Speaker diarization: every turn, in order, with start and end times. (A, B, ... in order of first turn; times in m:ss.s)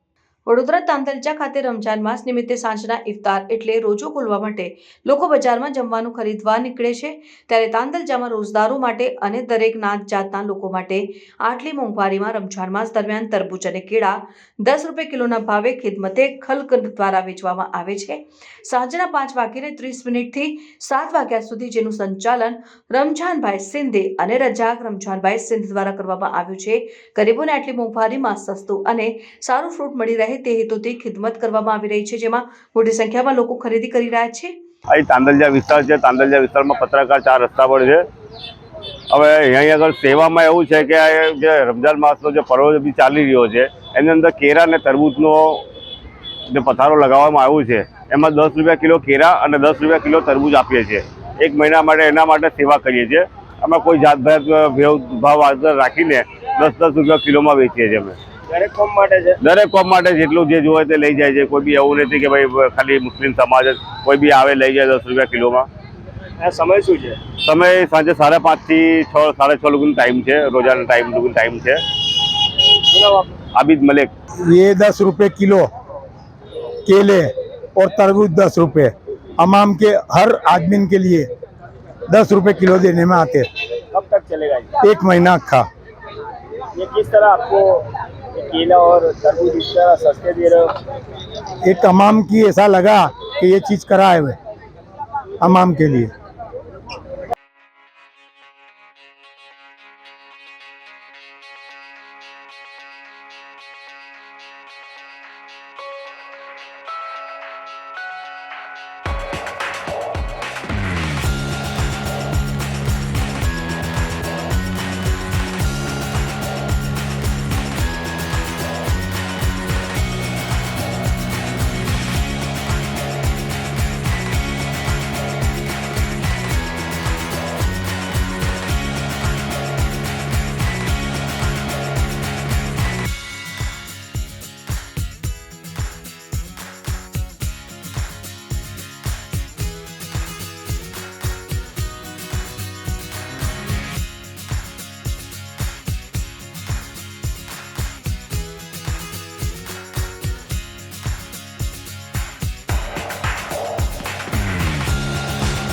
0:00.5-0:34.5 A
0:34.9-0:38.0 B
0:39.1-0:45.6 B
0:46.5-0:58.2 B
0:58.5-0:59.4 C
0:59.4-1:05.7 B
1:06.4-1:07.2 C
1:07.4-1:11.8 B
1:12.9-1:13.3 C
1:13.5-1:14.1 B
1:14.5-1:15.6 D
1:16.8-1:21.3 D
1:22.1-1:23.4 D
1:23.9-1:24.7 C
1:24.8-1:25.6 D
1:26.7-1:30.7 C
1:31.6-1:34.4 D
1:35.4-1:36.1 D